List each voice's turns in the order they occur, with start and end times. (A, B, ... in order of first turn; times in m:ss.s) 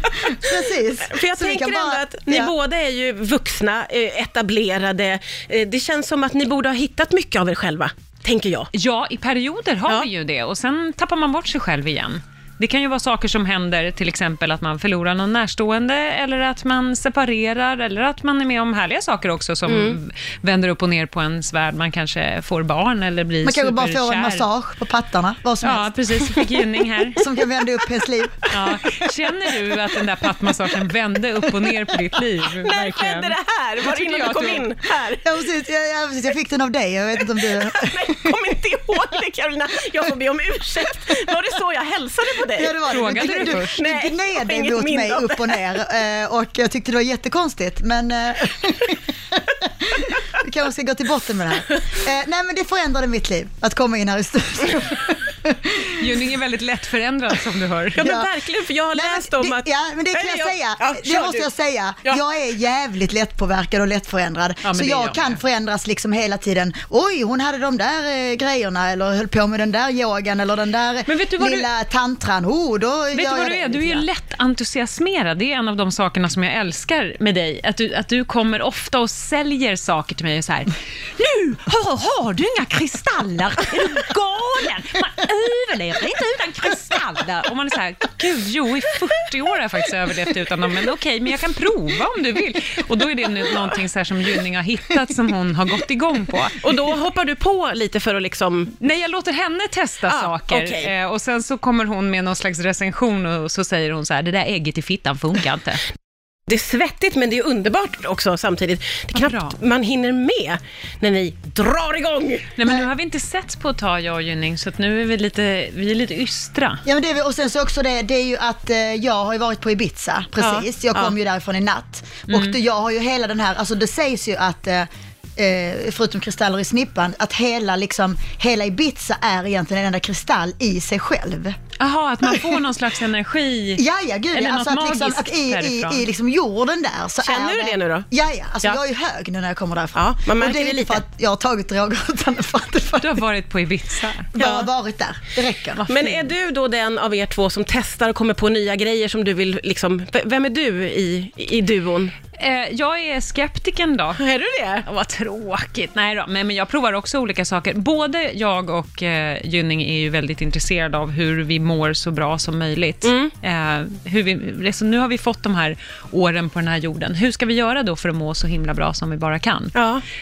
0:00.2-0:02.5 A
0:01.0-0:08.7 B
0:08.7-0:24.4 C
0:19.7-0:20.0 B
0:23.4-0:26.0 A
0:25.6-0:27.5 C
0:27.1-0:28.8 A
0:28.5-0:34.7 C
0:32.6-0:35.2 B
0:35.2-0:38.4 A
0:37.6-0:45.6 B
0:42.6-0:56.1 A
0:42.8-0:43.8 C
0:56.0-0:58.0 C
0:57.9-1:01.5 B
0:58.0-0:58.3 A
0:58.9-1:14.1 A
1:04.6-1:05.4 C
1:11.1-1:11.7 C
1:13.1-1:36.6 C
1:36.6-1:38.7 B
1:38.8-1:45.8 C
1:40.1-1:40.9 B
1:46.5-1:52.5 B
1:49.1-1:49.6 C
1:52.6-1:56.8 C
1:56.8-2:11.5 A
2:00.4-2:01.1 B
2:02.3-2:02.5 C
2:11.8-2:13.8 C
2:12.2-2:12.6 A
2:13.8-2:23.2 A
2:14.3-2:16.0 C
2:17.2-2:18.1 B
2:19.9-2:21.0 B
2:23.0-2:24.4 C
2:24.4-2:25.8 A
2:24.4-2:24.7 B
2:25.8-2:26.3 C
2:25.9-2:32.1 B
2:32.4-2:34.2 C
2:34.2-2:34.8 B
2:34.8-2:49.7 C
2:43.0-2:43.3 B
2:49.7-2:50.0 B